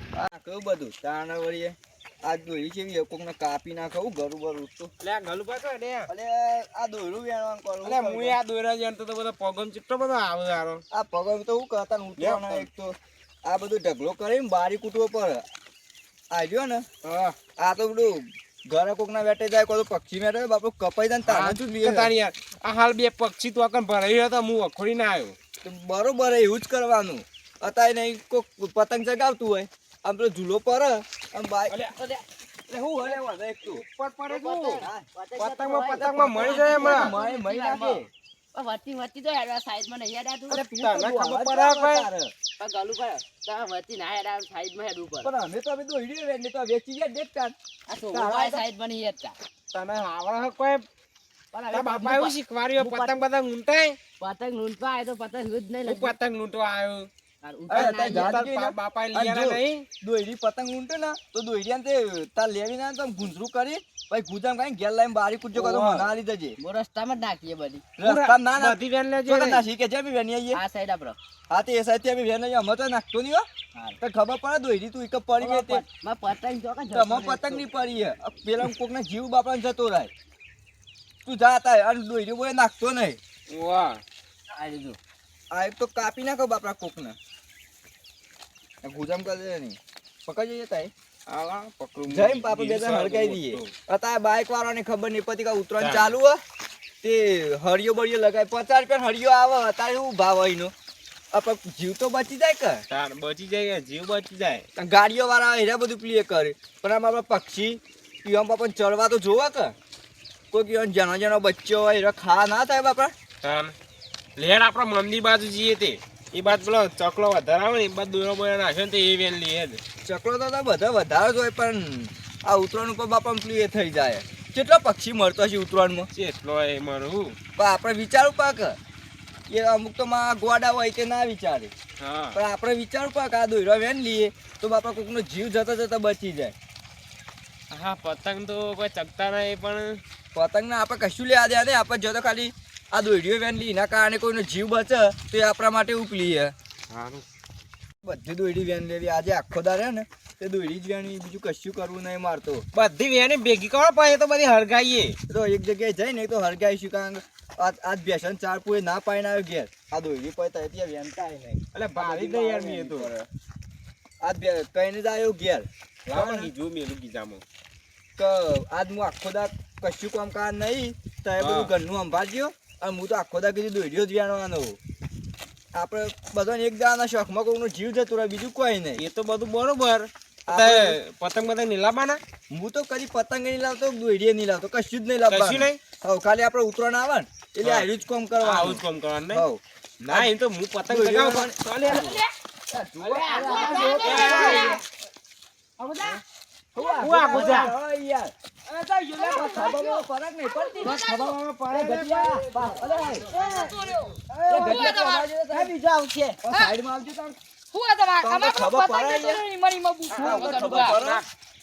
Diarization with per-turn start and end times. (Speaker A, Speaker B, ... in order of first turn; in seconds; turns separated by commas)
Speaker A: 0.1-4.9, Speaker B: 5.0-6.1, Speaker A: 6.1-8.4, Speaker B: 7.8-10.8, Speaker A: 10.9-15.4, Speaker B: 12.2-12.7, Speaker A: 16.3-16.8, Speaker B: 17.0-17.4, Speaker A: 17.6-22.1, Speaker B: 21.2-25.4, Speaker A: 25.6-31.8, Speaker B: 31.7-31.9, Speaker C: 31.9-32.2, Speaker A: 32.7-33.8, Speaker B: 33.7-37.1, Speaker C: 34.3-38.0, Speaker A: 34.7-35.0, Speaker A: 35.9-38.1, Speaker C: 38.5-40.6, Speaker B: 40.5-42.0, Speaker A: 40.5-42.3, Speaker C: 42.6-45.3, Speaker A: 45.2-47.5, Speaker C: 47.9-49.4, Speaker A: 48.1-48.6, Speaker B: 49.7-50.8, Speaker C: 51.5-53.2, Speaker B: 51.7-54.0, Speaker C: 54.2-56.1, Speaker B: 55.8-57.1, Speaker C: 57.4-58.4, Speaker A: 57.7-66.6, Speaker B: 57.7-59.9, Speaker B: 65.5-66.1, Speaker C: 66.6-67.8, Speaker A: 68.0-70.6, Speaker B: 68.0-69.6, Speaker C: 70.5-71.2, Speaker A: 71.5-73.5, Speaker A: 74.0-75.8, Speaker C: 75.4-77.6, Speaker A: 76.9-80.1, Speaker A: 81.2-83.2, Speaker B: 83.5-84.0, Speaker C: 84.5-85.0, Speaker A: 85.5-87.2, Speaker A: 88.8-90.9, Speaker B: 91.3-93.7, Speaker A: 92.1-96.4, Speaker B: 95.8-96.1, Speaker A: 97.0-100.7, Speaker A: 101.3-102.8, Speaker B: 102.9-104.6, Speaker A: 104.8-109.7, Speaker A: 110.5-113.1, Speaker B: 113.4-113.7, Speaker B: 114.4-119.8, Speaker A: 120.0-126.1, Speaker B: 126.1-127.3, Speaker A: 127.6-128.8, Speaker A: 129.5-131.7, Speaker B: 132.0-132.4, Speaker A: 132.3-136.5, Speaker B: 137.7-140.0, Speaker A: 140.3-146.5, Speaker B: 146.9-147.2, Speaker A: 148.0-152.6, Speaker B: 152.7-155.2, Speaker A: 155.3-163.3, Speaker B: 161.7-163.1, Speaker A: 164.2-166.5, Speaker B: 166.1-167.4, Speaker A: 168.2-174.8, Speaker B: 171.4-171.7, Speaker A: 175.7-179.0, Speaker B: 179.0-182.2, Speaker A: 180.5-181.0, Speaker A: 182.5-190.3, Speaker B: 185.3-185.8, Speaker B: 187.6-187.9, Speaker B: 188.4-189.4, Speaker B: 190.1-192.2, Speaker A: 190.9-192.1, Speaker D: 191.8-192.3, Speaker A: 192.7-194.8, Speaker B: 193.0-194.8, Speaker C: 193.0-194.8, Speaker D: 193.3-194.8, Speaker C: 195.8-196.2, Speaker A: 196.7-198.3, Speaker B: 197.0-197.7, Speaker C: 198.7-199.5, Speaker D: 199.2-201.3, Speaker A: 199.2-203.3, Speaker B: 200.8-202.5, Speaker D: 203.2-205.3, Speaker C: 203.3-203.7, Speaker C: 204.3-205.0, Speaker A: 204.5-205.7, Speaker C: 205.5-206.4, Speaker A: 206.4-207.4, Speaker D: 207.7-211.0, Speaker A: 208.2-209.4, Speaker B: 210.1-211.3, Speaker A: 210.2-211.2